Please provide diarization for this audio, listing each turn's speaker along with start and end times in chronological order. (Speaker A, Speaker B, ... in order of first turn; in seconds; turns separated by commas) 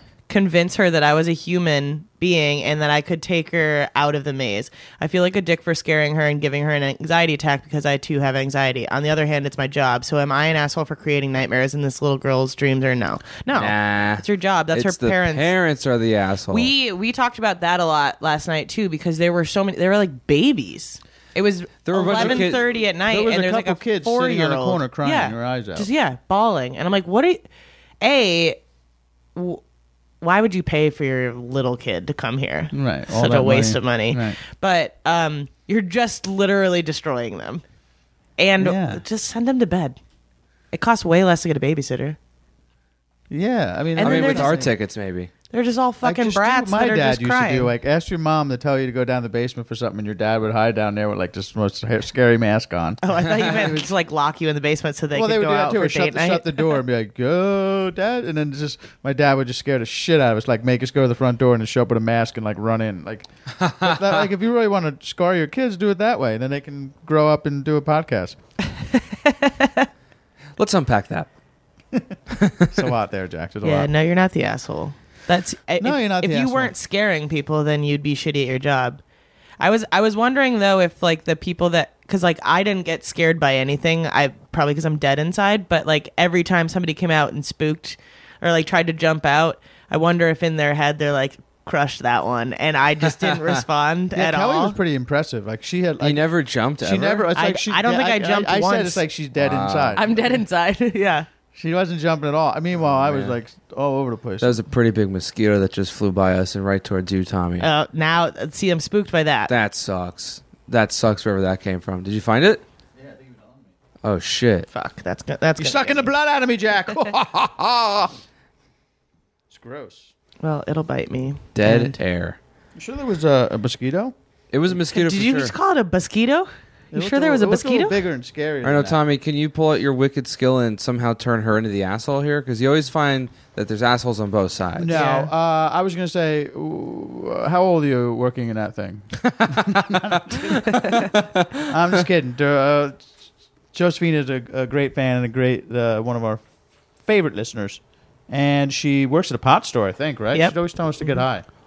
Speaker A: 0.3-15.5, Speaker B: 13.5-16.7, Speaker A: 16.5-27.4, Speaker B: 21.8-22.6, Speaker C: 22.1-25.9, Speaker A: 28.0-28.6, Speaker A: 29.3-29.6, Speaker A: 30.2-37.6, Speaker C: 32.7-34.4, Speaker A: 38.4-40.0, Speaker C: 38.6-39.0, Speaker A: 40.7-42.2, Speaker C: 43.3-44.7, Speaker A: 44.0-44.7, Speaker B: 44.0-45.3, Speaker A: 45.5-47.7, Speaker C: 46.0-53.7, Speaker A: 53.0-56.7, Speaker C: 55.1-68.4, Speaker B: 63.5-64.3, Speaker A: 68.9-69.9, Speaker B: 70.6-71.3, Speaker B: 72.3-72.8, Speaker C: 72.7-73.9, Speaker A: 73.6-79.0, Speaker C: 75.8-76.7, Speaker A: 79.6-94.8, Speaker C: 94.1-96.2, Speaker B: 96.0-97.3, Speaker C: 96.8-100.4, Speaker A: 97.3-99.0, Speaker B: 99.4-100.0, Speaker A: 100.0-101.3, Speaker C: 101.5-104.6, Speaker B: 102.7-103.4, Speaker B: 104.4-107.7, Speaker A: 107.6-109.5, Speaker B: 109.5-112.6, Speaker C: 113.0-113.7, Speaker B: 114.0-114.7, Speaker A: 114.7-116.1, Speaker C: 115.6-118.1, Speaker C: 119.5-120.1, Speaker A: 120.4-122.0, Speaker B: 121.5-122.4, Speaker C: 122.8-124.1, Speaker B: 124.5-125.5, Speaker A: 124.9-128.0, Speaker C: 126.9-129.0, Speaker B: 128.6-135.0, Speaker C: 134.8-140.9, Speaker A: 134.9-135.3, Speaker B: 139.2-141.7, Speaker C: 141.6-143.2, Speaker C: 143.7-146.4, Speaker C: 147.0-151.4